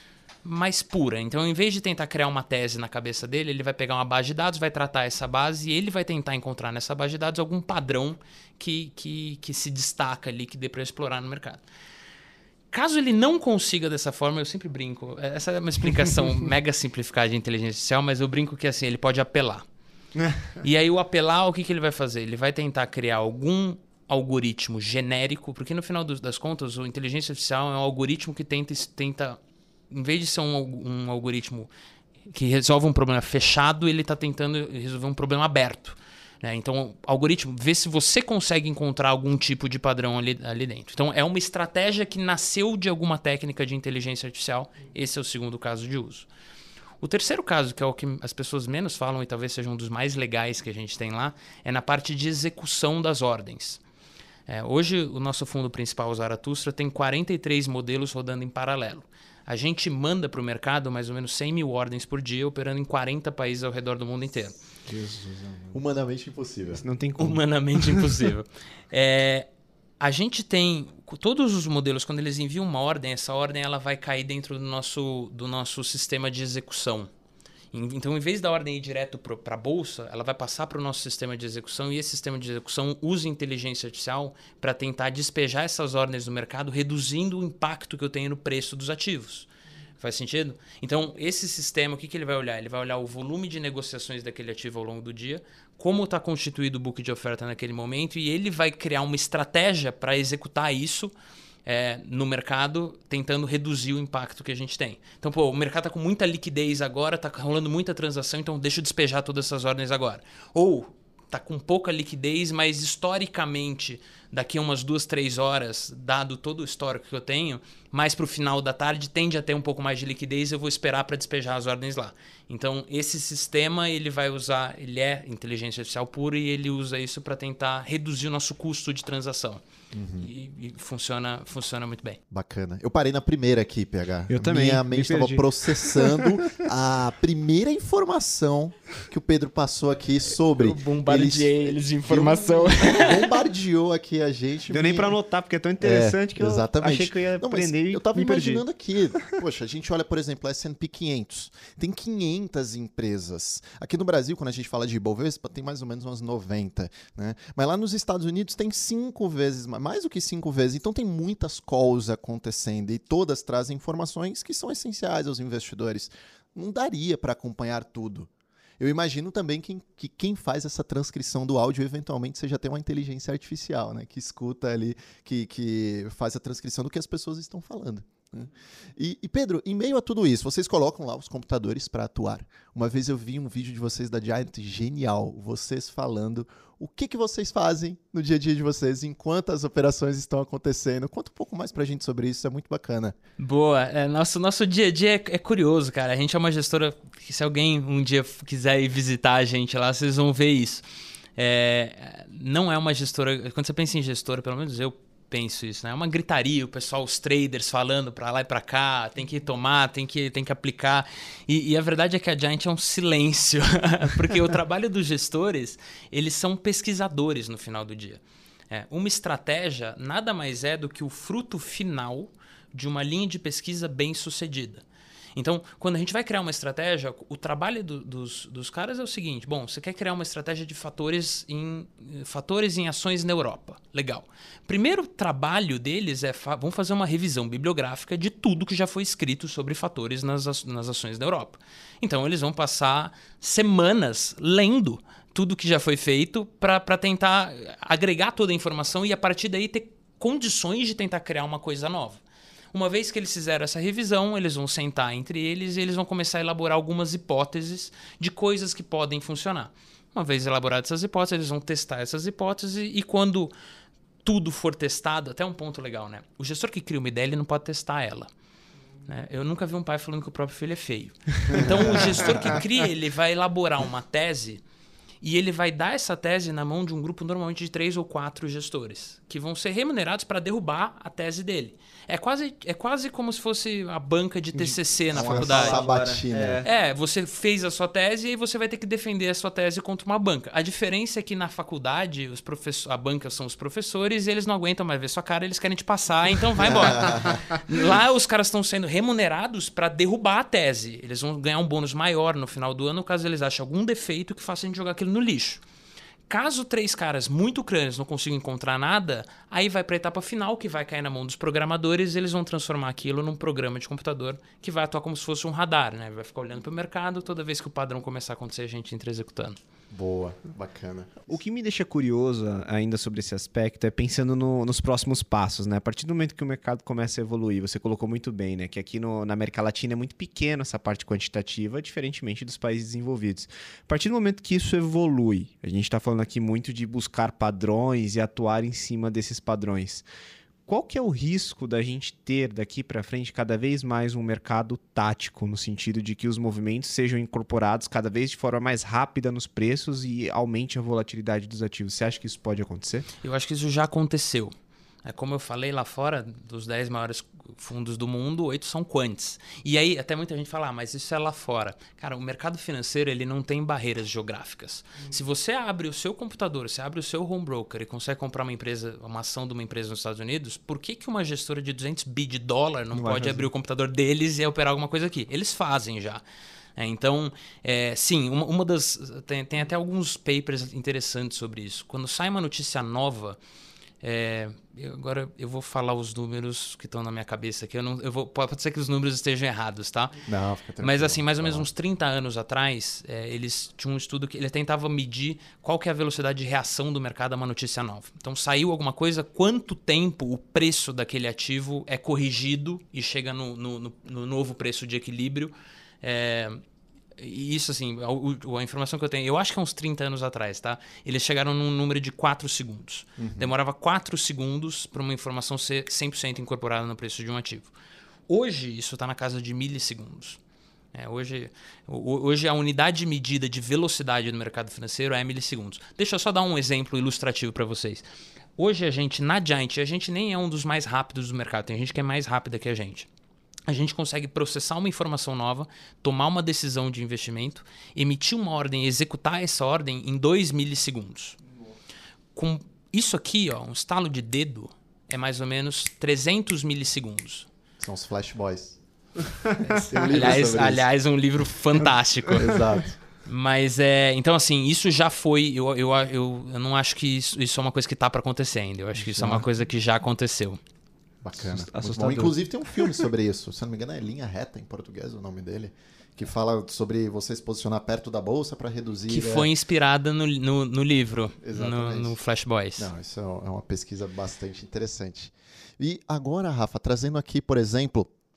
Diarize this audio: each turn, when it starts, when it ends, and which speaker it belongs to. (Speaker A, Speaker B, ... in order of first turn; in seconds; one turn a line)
Speaker A: 0.4-11.6
Speaker A: 12.7-19.6
Speaker A: 20.6-29.4
Speaker A: 29.9-31.7
Speaker A: 32.3-46.3
Speaker A: 47.0-53.8
Speaker A: 54.5-64.6
Speaker B: 64.9-65.8
Speaker C: 65.7-66.8
Speaker B: 66.8-68.1
Speaker A: 67.2-69.5
Speaker A: 70.0-77.1
Speaker A: 77.7-89.5
Speaker A: 90.0-101.1
Speaker A: 101.7-129.6
Speaker C: 129.9-130.3
Speaker A: 130.2-132.2
Speaker C: 132.3-145.2
Speaker B: 134.3-136.6
Speaker A: 140.6-143.3
Speaker B: 144.7-148.6
Speaker C: 145.8-193.2
Speaker A: 193.4-200.8
Speaker A: 201.4-224.8
Speaker A: 225.4-252.2
Speaker A: 252.7-263.5
Speaker A: 264.2-268.3
Speaker A: 269.1-274.6
Speaker C: 271.5-272.6
Speaker A: 275.2-285.9
Speaker C: 285.1-286.6
Speaker B: 285.1-286.7
Speaker A: 286.6-305.6
Speaker C: 296.6-297.5
Speaker A: 306.3-319.6
Speaker C: 319.9-321.3
Speaker B: 321.3-340.1
Speaker B: 340.7-353.1
Speaker A: 353.2-376.2
Speaker B: 372.9-373.5
Speaker A: 376.8-383.4
Speaker A: 384.0-390.3
Speaker C: 390.3-391.7
Speaker A: 390.8-406.6
Speaker A: 407.2-417.7
Speaker C: 413.2-413.5
Speaker A: 418.3-420.4
Speaker A: 420.9-428.1
Speaker A: 428.6-433.1
Speaker A: 433.7-441.4
Speaker A: 442.3-447.5
Speaker C: 447.8-448.8
Speaker C: 449.5-450.9
Speaker A: 449.9-452.7
Speaker C: 452.4-453.0
Speaker A: 453.3-460.6
Speaker B: 459.0-459.5
Speaker C: 461.2-469.5
Speaker B: 461.4-462.8
Speaker A: 469.1-472.9
Speaker C: 471.4-472.1
Speaker C: 472.8-478.1